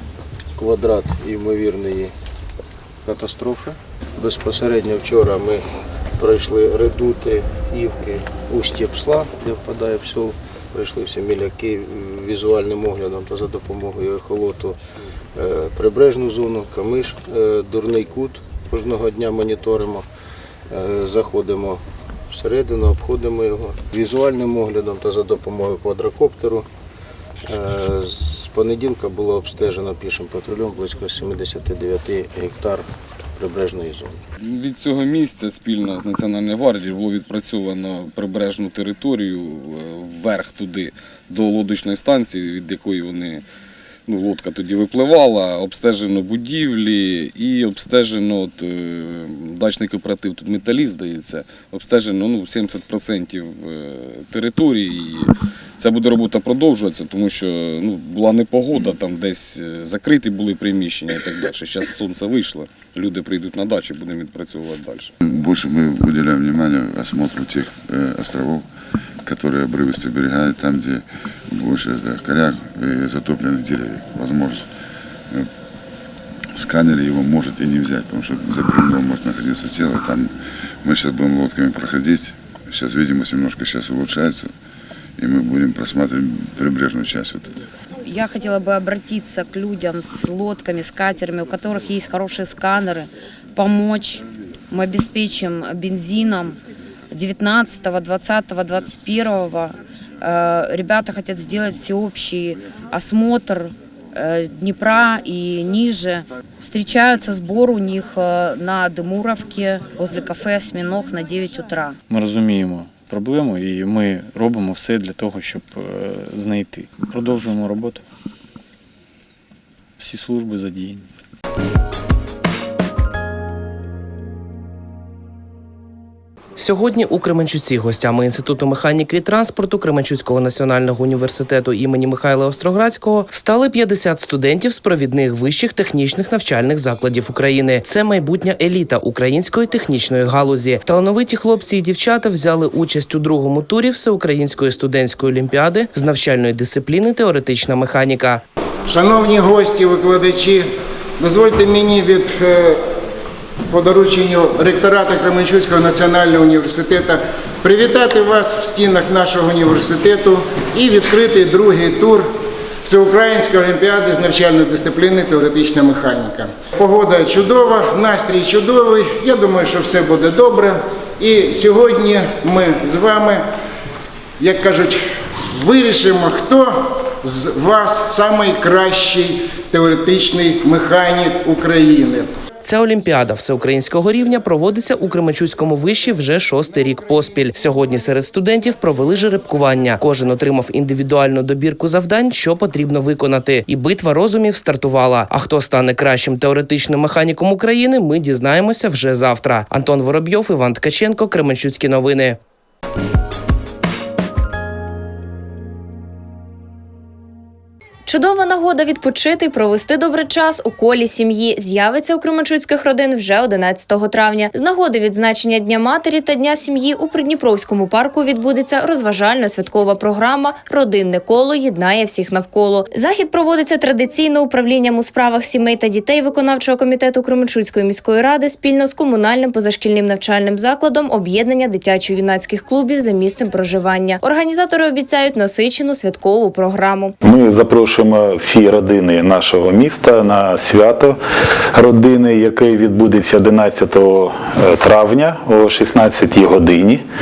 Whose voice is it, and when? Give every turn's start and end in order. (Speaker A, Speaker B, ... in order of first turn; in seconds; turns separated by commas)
Speaker A: 0.6-2.1, Speaker A: 3.0-5.6, Speaker A: 6.2-14.8, Speaker A: 15.3-20.0, Speaker A: 20.7-26.7, Speaker A: 27.4-34.2, Speaker B: 34.4-43.4, Speaker B: 44.1-65.1, Speaker C: 65.2-68.7, Speaker C: 69.2-74.7, Speaker C: 76.5-80.3, Speaker C: 80.8-84.5, Speaker C: 85.2-87.7, Speaker D: 88.0-96.5, Speaker D: 97.1-112.0, Speaker E: 112.1-118.0, Speaker E: 120.0-121.0, Speaker F: 126.6-148.4, Speaker G: 148.9-150.7, Speaker G: 151.2-152.8, Speaker G: 153.7-162.3, Speaker G: 162.8-173.4, Speaker G: 174.4-182.3, Speaker F: 182.6-202.4, Speaker H: 208.1-237.1, Speaker I: 237.2-241.2, Speaker I: 241.7-247.0